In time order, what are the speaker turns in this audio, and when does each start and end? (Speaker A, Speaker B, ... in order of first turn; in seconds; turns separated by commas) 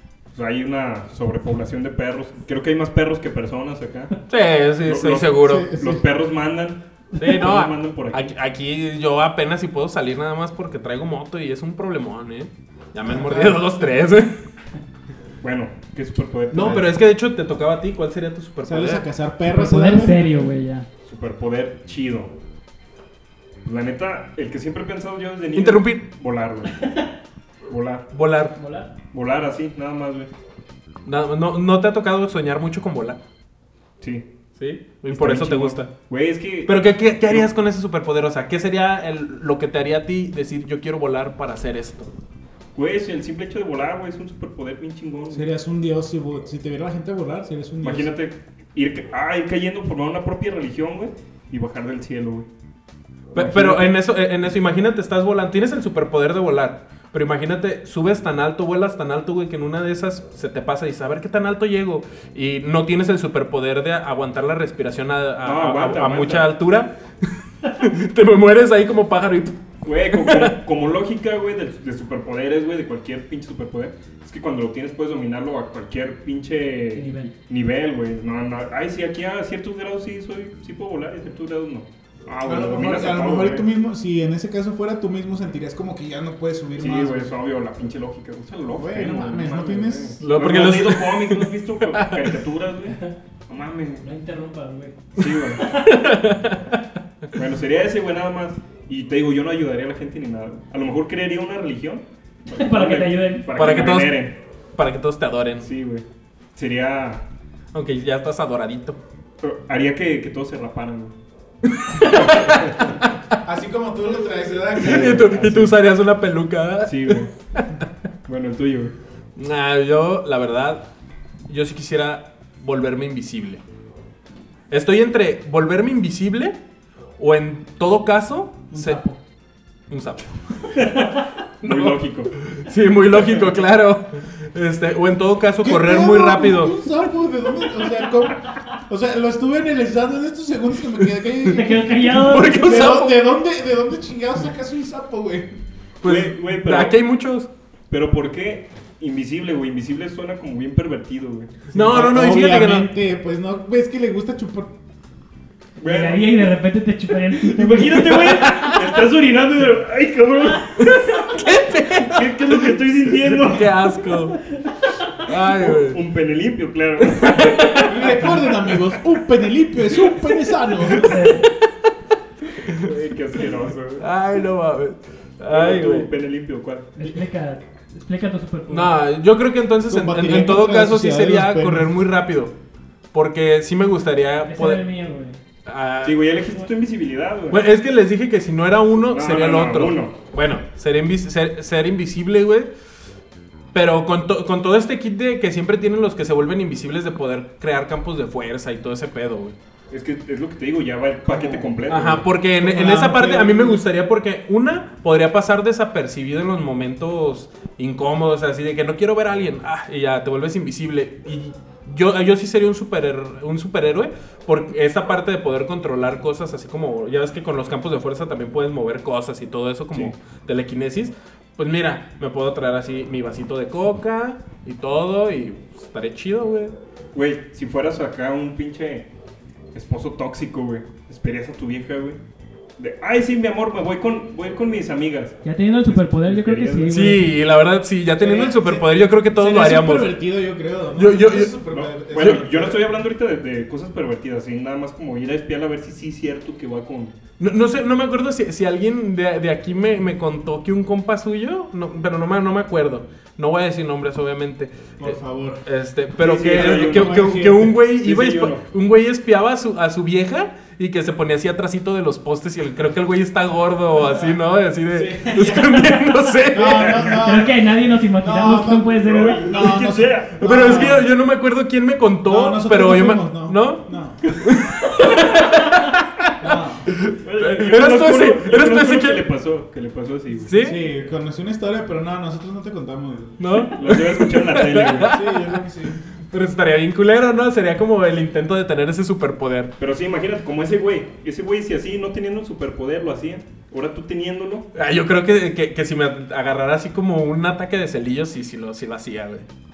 Speaker A: 0.3-4.2, Speaker B: 4.3-5.7, Speaker A: 4.8-8.3, Speaker C: 5.4-6.0, Speaker B: 7.2-14.3, Speaker C: 13.0-13.7, Speaker A: 15.4-16.9, Speaker B: 16.5-19.0, Speaker C: 18.6-20.2, Speaker D: 19.4-20.9, Speaker A: 21.0-22.3, Speaker A: 23.6-26.9, Speaker B: 25.5-26.0, Speaker A: 27.7-28.1, Speaker B: 28.1-28.5, Speaker D: 28.6-28.9, Speaker A: 29.1-30.3, Speaker B: 31.0-33.2, Speaker B: 34.6-35.9, Speaker A: 35.1-37.5, Speaker B: 36.6-42.1, Speaker A: 42.7-45.5, Speaker C: 45.3-48.1, Speaker A: 47.8-52.5, Speaker A: 53.3-53.9, Speaker B: 53.3-66.9, Speaker A: 65.4-66.5, Speaker B: 67.6-69.5, Speaker A: 69.8-83.7, Speaker B: 70.1-70.5, Speaker D: 76.9-77.3, Speaker C: 82.4-87.3, Speaker A: 86.8-94.0, Speaker C: 88.7-90.2, Speaker B: 90.2-92.3, Speaker D: 94.0-95.0, Speaker A: 95.2-95.7, Speaker D: 95.6-96.1, Speaker B: 95.7-96.8, Speaker A: 97.3-104.3, Speaker D: 102.5-103.7, Speaker B: 103.5-105.7, Speaker A: 105.6-107.2, Speaker B: 107.7-109.0, Speaker A: 109.4-111.1, Speaker B: 111.7-112.9, Speaker A: 112.0-113.0, Speaker C: 113.4-115.5, Speaker A: 114.8-115.7, Speaker B: 114.8-117.8, Speaker A: 116.8-117.3, Speaker A: 118.2-118.9, Speaker B: 119.3-120.8, Speaker B: 121.5-123.6, Speaker B: 124.7-126.5, Speaker B: 127.2-129.0, Speaker D: 128.7-129.2, Speaker B: 129.9-130.9, Speaker A: 130.7-132.3, Speaker B: 131.6-136.8, Speaker A: 133.1-133.5, Speaker C: 135.6-145.5, Speaker B: 141.3-143.2, Speaker D: 141.4-142.9, Speaker B: 146.0-147.5, Speaker A: 146.0-147.0, Speaker A: 147.9-151.6, Speaker B: 151.7-152.9, Speaker C: 151.7-154.7, Speaker A: 155.8-156.5, Speaker D: 155.8-158.2, Speaker A: 157.4-163.8, Speaker B: 157.8-158.9, Speaker B: 160.8-164.4, Speaker B: 165.2-166.0, Speaker A: 165.6-168.3, Speaker B: 167.0-168.2, Speaker C: 167.8-171.3, Speaker B: 170.8-171.6, Speaker D: 171.0-171.5, Speaker B: 172.6-172.9, Speaker A: 172.7-174.0, Speaker B: 174.0-176.1, Speaker A: 175.5-176.9, Speaker D: 177.0-178.9, Speaker B: 178.7-182.5, Speaker C: 179.9-182.0, Speaker B: 183.1-184.8, Speaker D: 184.4-185.4, Speaker B: 185.7-186.3, Speaker A: 186.0-187.6, Speaker B: 187.5-192.7, Speaker A: 189.1-190.1, Speaker B: 193.7-199.5, Speaker A: 199.9-202.3, Speaker B: 201.3-226.7, Speaker C: 202.6-203.8, Speaker A: 227.1-229.1, Speaker A: 229.7-232.2, Speaker A: 232.8-237.1, Speaker D: 235.4-237.3, Speaker B: 236.9-240.1, Speaker C: 238.2-242.9, Speaker B: 240.9-241.6, Speaker A: 241.7-247.1, Speaker B: 247.4-255.1, Speaker C: 255.0-255.6, Speaker B: 255.6-267.2, Speaker A: 256.2-258.6, Speaker C: 256.4-257.8, Speaker C: 263.9-271.1, Speaker D: 267.2-269.5, Speaker A: 268.9-271.0, Speaker B: 270.4-279.2, Speaker C: 272.2-274.3, Speaker C: 276.4-276.9, Speaker A: 277.2-280.5, Speaker B: 280.4-280.8, Speaker C: 280.6-283.4, Speaker B: 283.4-285.6, Speaker A: 283.8-285.1, Speaker C: 285.1-286.0, Speaker B: 286.3-289.7, Speaker A: 289.8-294.7, Speaker B: 294.7-299.4